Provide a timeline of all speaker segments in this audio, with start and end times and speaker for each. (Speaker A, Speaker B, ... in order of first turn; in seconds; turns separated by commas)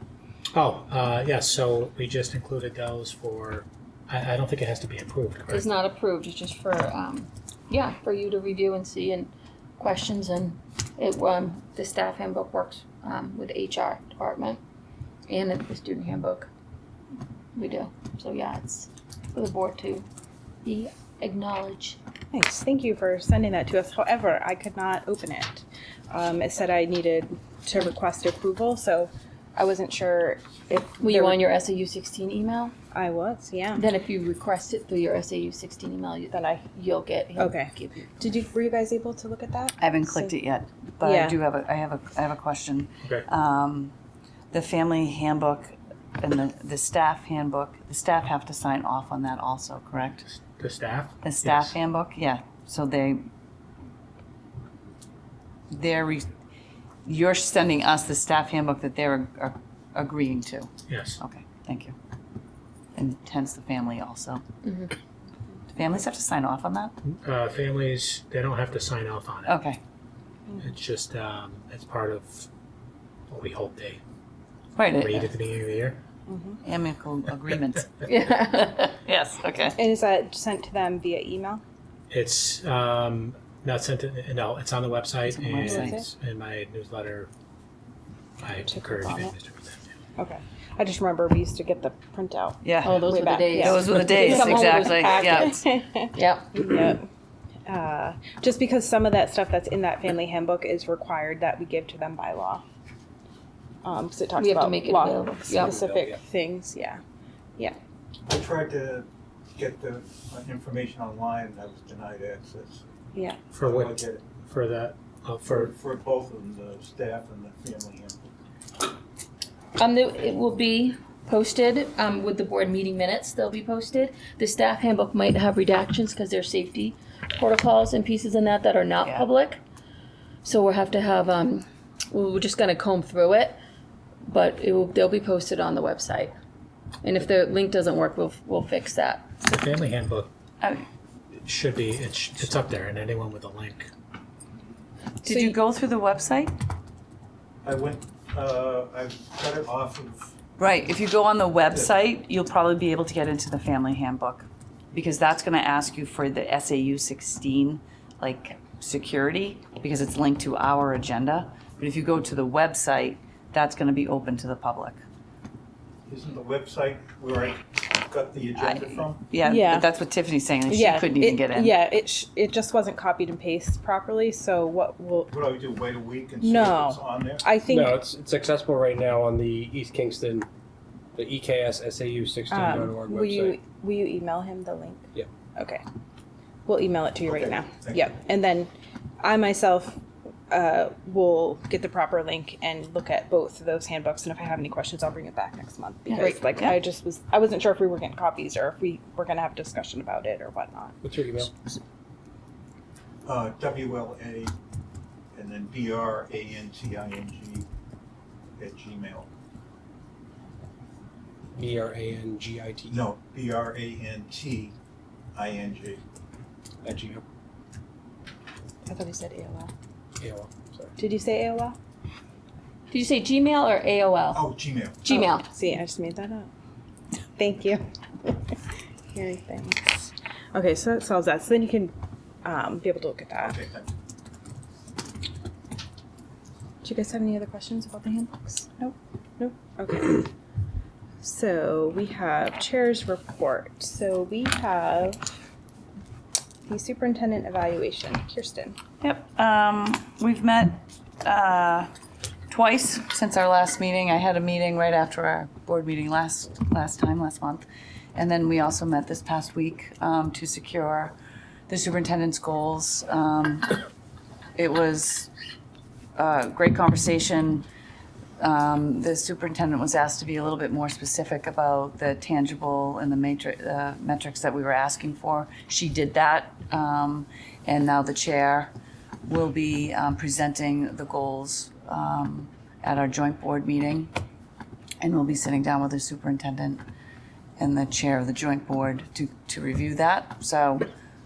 Speaker A: 0.5-5.7, Speaker B: 5.5-14.6, Speaker B: 15.3-16.5, Speaker B: 17.5-20.1, Speaker B: 20.6-22.0, Speaker C: 22.3-31.4, Speaker B: 30.7-32.7, Speaker C: 32.9-33.9, Speaker B: 33.8-38.2, Speaker C: 36.3-36.7, Speaker C: 37.3-40.3, Speaker D: 39.8-43.9, Speaker C: 41.0-41.4, Speaker D: 44.5-50.2, Speaker A: 50.2-51.8, Speaker D: 51.2-53.3, Speaker D: 55.7-56.3, Speaker D: 57.0-61.9, Speaker A: 60.9-61.2, Speaker D: 62.9-64.4, Speaker B: 64.6-64.9, Speaker D: 65.7-66.9, Speaker A: 67.0-69.5, Speaker D: 69.5-69.8, Speaker A: 70.5-72.5, Speaker A: 73.3-74.0, Speaker D: 74.8-75.3, Speaker A: 75.0-76.0, Speaker C: 76.3-76.6, Speaker D: 76.6-79.8, Speaker B: 78.0-78.9, Speaker C: 79.8-81.6, Speaker A: 82.1-87.3, Speaker D: 85.3-86.0, Speaker C: 85.7-86.0, Speaker A: 88.4-89.8, Speaker C: 88.7-89.3, Speaker C: 90.2-97.1, Speaker D: 92.6-95.6, Speaker B: 92.8-96.7, Speaker C: 97.7-102.6, Speaker C: 103.8-107.0, Speaker B: 104.4-105.8, Speaker E: 105.5-106.2, Speaker F: 108.3-112.8, Speaker C: 113.1-113.4, Speaker A: 113.5-115.7, Speaker F: 113.6-114.2, Speaker F: 115.5-118.2, Speaker B: 119.8-129.6, Speaker D: 129.0-129.3, Speaker B: 130.4-133.6, Speaker B: 134.2-136.3, Speaker B: 137.0-139.3, Speaker A: 139.4-140.3, Speaker A: 141.4-143.9, Speaker D: 145.2-146.5, Speaker C: 145.3-145.6, Speaker F: 147.6-150.3, Speaker D: 150.6-165.0, Speaker F: 166.1-169.3, Speaker D: 168.6-171.8, Speaker C: 169.4-169.9, Speaker C: 170.7-175.3, Speaker F: 175.3-177.5, Speaker C: 176.4-178.0, Speaker E: 177.6-180.5, Speaker E: 181.2-183.6, Speaker C: 182.5-185.8, Speaker C: 186.7-188.7, Speaker F: 187.2-188.1, Speaker C: 189.2-190.0, Speaker C: 190.5-201.0, Speaker B: 196.1-196.4, Speaker E: 201.0-201.5, Speaker F: 203.2-204.5, Speaker F: 205.3-207.7, Speaker F: 208.6-209.3, Speaker E: 211.6-213.1, Speaker F: 212.9-214.7, Speaker F: 215.3-216.0, Speaker E: 216.8-217.2, Speaker C: 218.8-219.7, Speaker E: 220.2-220.9, Speaker C: 221.0-221.8, Speaker B: 222.9-224.4, Speaker F: 224.3-225.1, Speaker B: 225.0-225.4, Speaker C: 225.1-226.5, Speaker C: 227.4-228.5, Speaker C: 229.1-229.8, Speaker C: 230.5-231.9, Speaker C: 232.4-233.6, Speaker F: 233.4-233.9, Speaker C: 236.8-240.3, Speaker C: 241.2-245.2, Speaker C: 246.7-248.8, Speaker D: 249.0-251.9, Speaker D: 252.5-257.6, Speaker D: 258.1-261.1, Speaker D: 261.7-263.8, Speaker D: 264.6-265.3, Speaker D: 266.1-267.6, Speaker D: 268.4-278.7, Speaker D: 279.2-284.1, Speaker D: 285.0-286.8, Speaker D: 287.6-290.9